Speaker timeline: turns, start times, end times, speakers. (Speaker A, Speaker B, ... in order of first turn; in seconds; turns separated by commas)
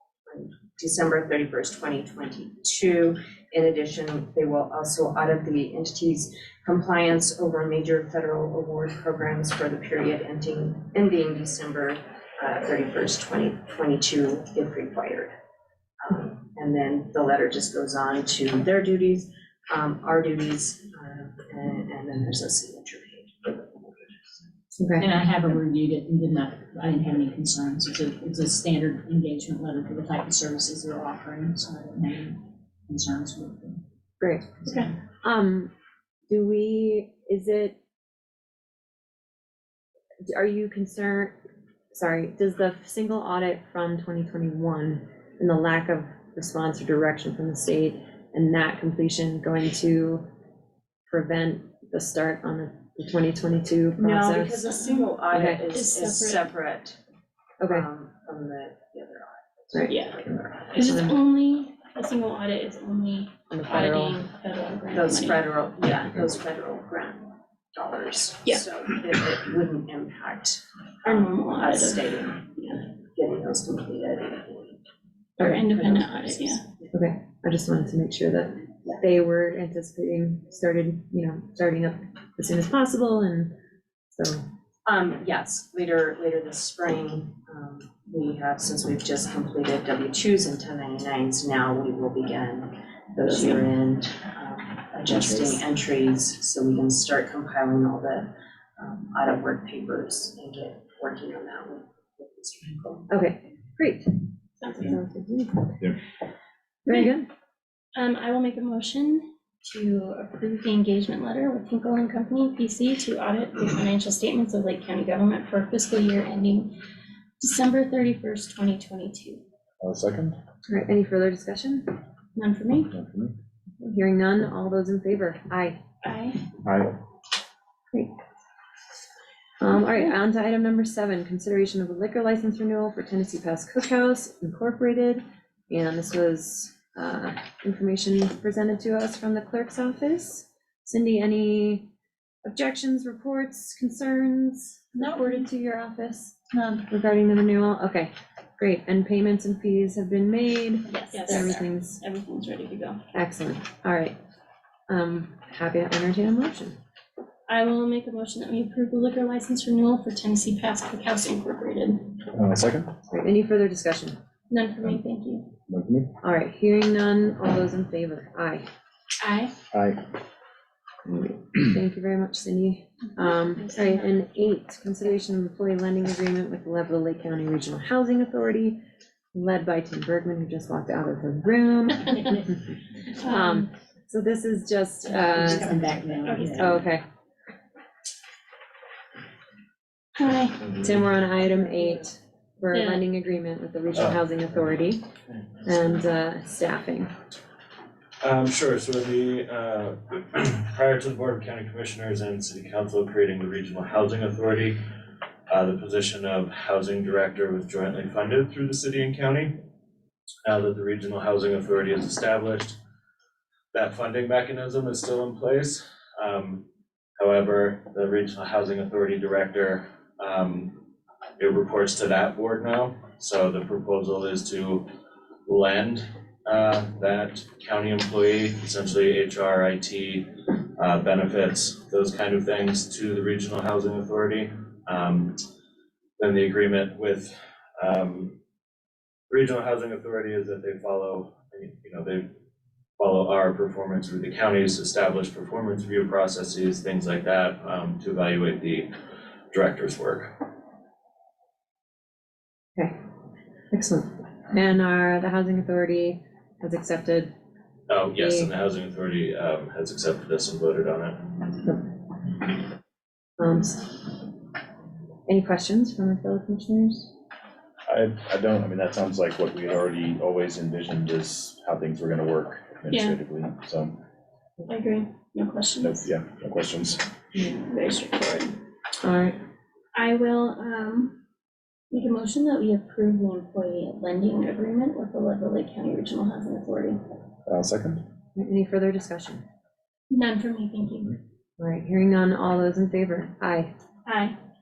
Speaker A: 0.3-15.3, Speaker A: 16.0-24.4, Speaker B: 24.8-25.1, Speaker C: 25.0-33.8, Speaker B: 34.2-34.5, Speaker D: 34.7-34.9, Speaker B: 35.2-35.7, Speaker B: 36.3-37.8, Speaker B: 40.3-41.4, Speaker B: 41.9-50.2, Speaker B: 51.1-54.6, Speaker A: 54.0-57.0, Speaker D: 54.7-55.2, Speaker B: 55.3-55.6, Speaker D: 55.7-56.5, Speaker B: 57.6-57.9, Speaker A: 57.7-61.1, Speaker B: 59.7-60.0, Speaker D: 59.9-60.1, Speaker D: 60.7-65.5, Speaker B: 60.8-61.2, Speaker B: 63.5-64.3, Speaker A: 64.9-74.8, Speaker D: 71.0-72.8, Speaker D: 75.4-76.6, Speaker A: 75.7-76.9, Speaker B: 76.9-83.5, Speaker B: 84.1-84.4, Speaker A: 84.9-103.1, Speaker D: 95.2-95.5, Speaker B: 103.1-104.2, Speaker D: 104.6-105.0, Speaker B: 104.8-105.9, Speaker D: 106.9-107.2, Speaker B: 106.9-107.3, Speaker D: 108.0-116.8, Speaker D: 117.4-119.4, Speaker E: 119.8-120.4, Speaker B: 120.7-121.9, Speaker D: 122.3-122.9, Speaker E: 122.9-123.3, Speaker B: 123.8-125.8, Speaker D: 126.0-126.4, Speaker E: 126.6-126.9, Speaker B: 129.6-141.9, Speaker B: 142.4-152.0, Speaker A: 150.9-151.5, Speaker D: 150.9-153.0, Speaker B: 153.1-154.2, Speaker B: 154.9-156.8, Speaker D: 157.5-162.2, Speaker E: 162.3-162.9, Speaker B: 163.1-164.2, Speaker D: 164.5-165.5, Speaker E: 165.7-166.1, Speaker B: 166.2-168.7, Speaker D: 169.2-169.5, Speaker E: 169.7-170.1, Speaker B: 171.1-178.8, Speaker D: 173.2-174.2, Speaker B: 179.3-185.8, Speaker D: 183.2-183.7, Speaker C: 185.1-186.9, Speaker D: 186.2-186.7, Speaker B: 186.4-187.0, Speaker D: 190.2-190.7, Speaker B: 190.8-195.0, Speaker D: 192.7-193.1, Speaker B: 195.6-197.1, Speaker F: 198.2-204.8, Speaker F: 205.5-209.6, Speaker F: 210.4-212.8, Speaker F: 213.7-216.7, Speaker F: 217.2-220.8, Speaker F: 221.4-224.9, Speaker F: 225.5-235.4, Speaker F: 236.2-238.4, Speaker F: 239.3-242.3, Speaker F: 243.0-248.9, Speaker F: 249.5-250.4, Speaker B: 253.7-257.3, Speaker F: 257.9-261.3, Speaker B: 258.1-258.5, Speaker B: 263.4-264.0, Speaker B: 265.3-267.1, Speaker E: 267.9-274.0, Speaker D: 272.9-273.2, Speaker D: 274.7-276.1, Speaker E: 275.8-277.1, Speaker D: 277.4-278.6, Speaker B: 279.0-279.4, Speaker D: 279.9-281.2, Speaker D: 281.9-287.0, Speaker E: 287.5-288.0, Speaker B: 288.4-289.4, Speaker D: 290.1-291.2, Speaker B: 291.6-293.7, Speaker D: 294.1-294.4